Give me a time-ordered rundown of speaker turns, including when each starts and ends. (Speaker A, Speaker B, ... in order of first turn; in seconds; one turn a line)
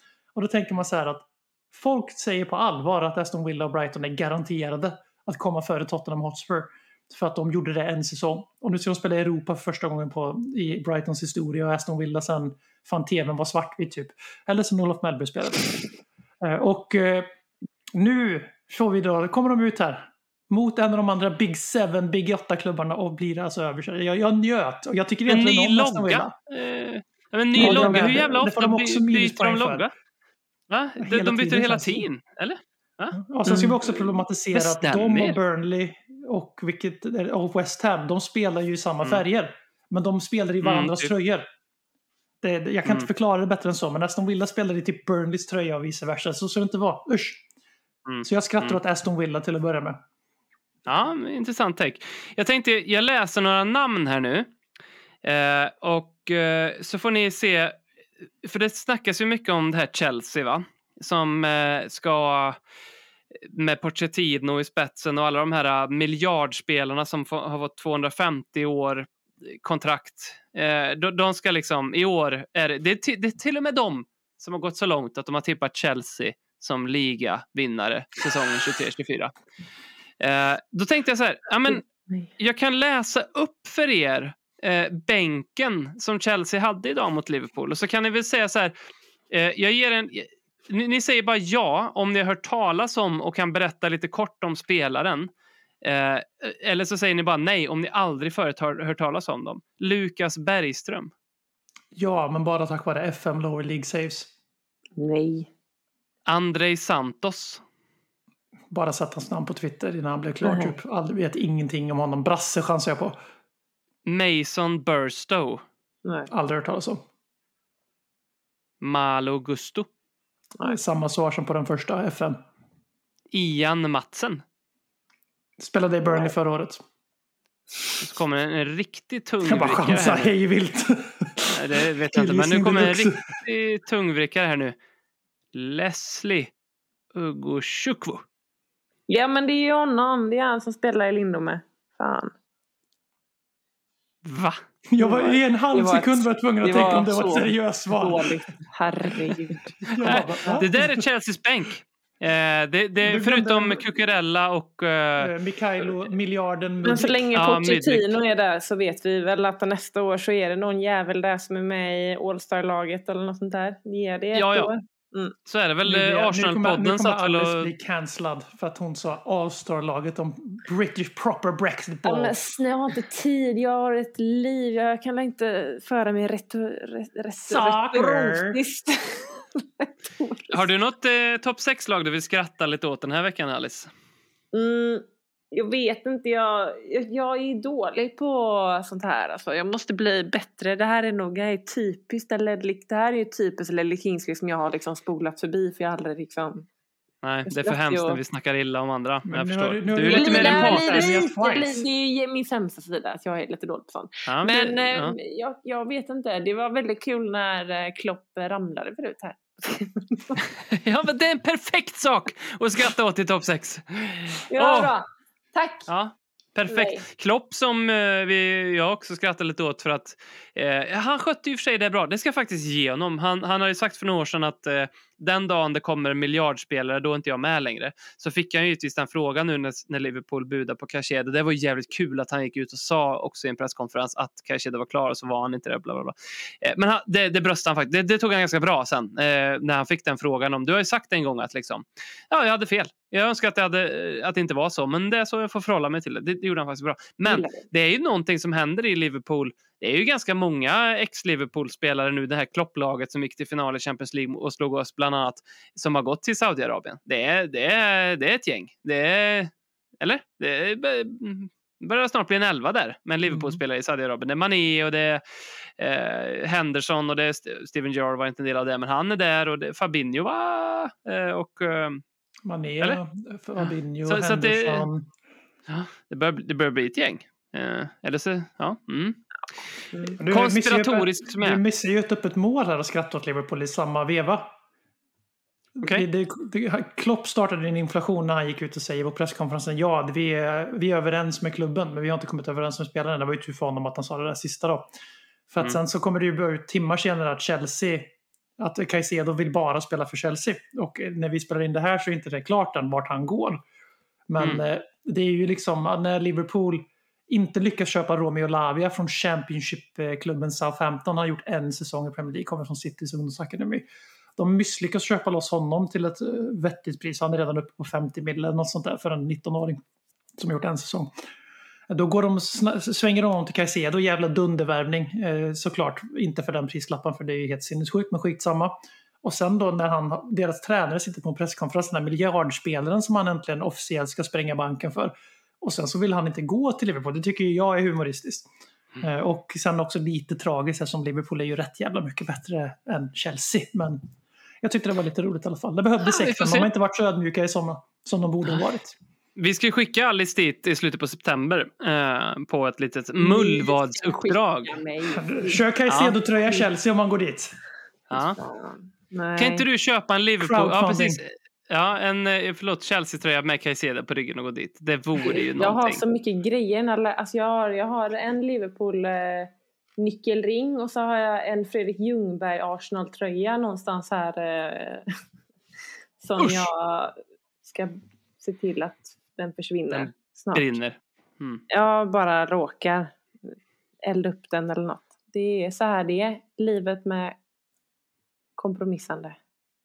Speaker A: 0.3-15.8
Speaker A: 16.4-17.3
Speaker A: 17.9-26.3
Speaker B: 25.3-29.9
Speaker A: 27.5-29.9
Speaker C: 27.5-28.3
Speaker B: 30.7-35.4
Speaker A: 31.0-32.1
Speaker A: 33.1-41.5
Speaker B: 40.6-41.1
Speaker A: 42.4-47.4
Speaker B: 48.0-48.8
Speaker A: 48.2-50.0
Speaker B: 50.9-54.5
Speaker B: 55.2-57.8
Speaker B: 58.4-62.6
Speaker B: 63.4-79.3
Speaker B: 80.2-81.9
Speaker B: 82.4-88.7
Speaker B: 89.3-95.3
Speaker B: 95.8-101.1
Speaker A: 101.9-104.3
Speaker C: 105.0-105.5
Speaker B: 106.2-107.6
Speaker A: 108.7-113.2
Speaker C: 110.4-110.7
Speaker B: 114.0-115.6
Speaker C: 116.0-116.3
Speaker A: 116.3-117.0
Speaker B: 118.8-119.9
Speaker A: 120.6-122.4
Speaker B: 123.3-124.4
Speaker A: 125.6-126.8
Speaker B: 128.0-130.3
Speaker A: 129.4-133.2
Speaker B: 131.5-134.7
Speaker B: 135.5-136.5
Speaker B: 137.1-138.2
Speaker C: 139.1-142.3
Speaker B: 144.2-144.6
Speaker A: 144.9-148.3
Speaker C: 145.0-150.6
Speaker A: 149.8-151.1
Speaker B: 149.9-155.3
Speaker A: 153.0-153.8
Speaker A: 155.2-157.3
Speaker C: 156.8-165.3
Speaker B: 157.3-158.2
Speaker B: 164.3-164.7
Speaker B: 165.5-167.7
Speaker A: 165.8-172.4
Speaker C: 172.1-180.6
Speaker A: 177.5-178.6
Speaker B: 180.5-183.9
Speaker C: 184.5-196.7
Speaker B: 197.2-201.2
Speaker C: 197.5-198.2
Speaker A: 199.3-201.8
Speaker C: 200.1-210.4
Speaker B: 204.3-205.2
Speaker B: 210.7-214.9
Speaker C: 214.5-215.9
Speaker B: 215.9-265.2
Speaker C: 216.7-217.0
Speaker C: 247.2-247.6
Speaker A: 263.3-263.6
Speaker B: 265.8-272.0
Speaker A: 272.4-275.1
Speaker B: 273.6-274.9
Speaker B: 275.7-279.2
Speaker C: 279.9-280.2
Speaker B: 280.1-281.6
Speaker A: 280.2-284.5
Speaker A: 285.8-294.9
Speaker A: 295.5-303.6
Speaker A: 304.3-313.8
Speaker B: 304.4-304.6
Speaker A: 314.4-319.8
Speaker A: 320.4-321.1
Speaker A: 321.9-338.5
Speaker A: 339.0-344.0
Speaker A: 344.6-348.9
Speaker B: 346.0-346.7
Speaker B: 349.4-354.8
Speaker C: 353.2-355.6
Speaker A: 355.1-357.6
Speaker B: 355.9-356.1
Speaker B: 358.1-358.4
Speaker C: 358.1-359.6
Speaker B: 359.4-366.0
Speaker A: 360.4-361.2
Speaker C: 365.2-375.1
Speaker C: 376.2-380.8
Speaker B: 376.4-376.7
Speaker B: 379.9-381.6
Speaker C: 381.7-383.2
Speaker C: 384.0-387.4
Speaker C: 388.6-389.4